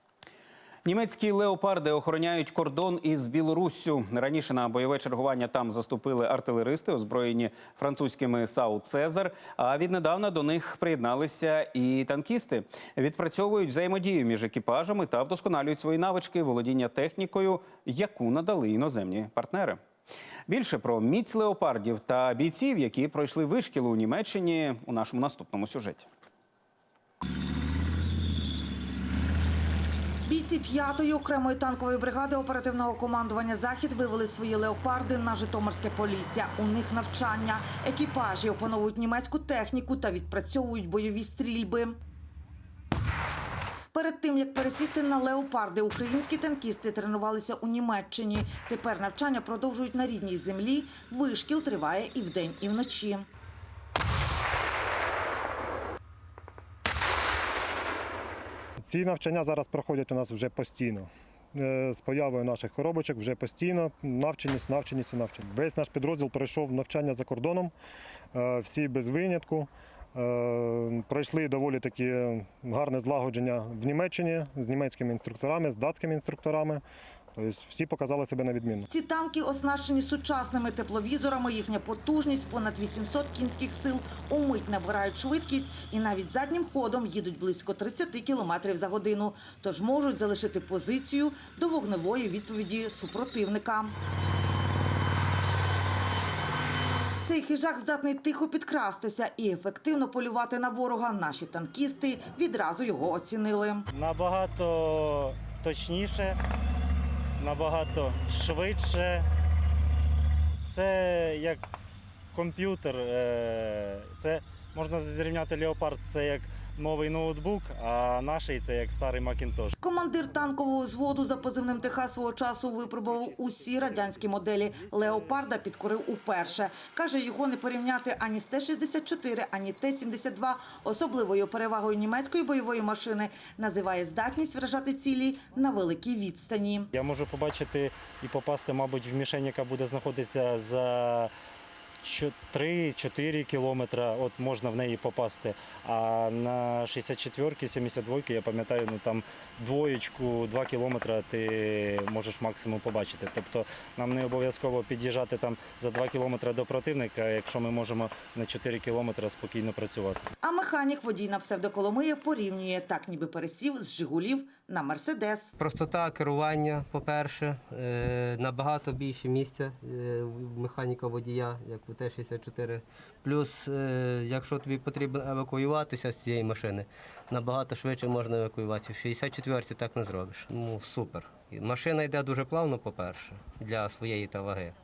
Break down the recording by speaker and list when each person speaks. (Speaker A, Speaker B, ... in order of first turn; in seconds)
Speaker A: 0.8-19.8, 20.5-26.1
Speaker B: 30.2-42.0, 43.9-53.3, 78.9-93.9, 97.2-103.9, 119.8-136.9, 160.4-165.5
Speaker C: 58.8-67.7, 68.3-76.8, 77.3-78.8
Speaker D: 103.9-106.4, 107.4-109.3, 110.7-111.6, 112.3-119.7, 136.9-141.3, 142.0-160.3
Speaker E: 165.6-184.7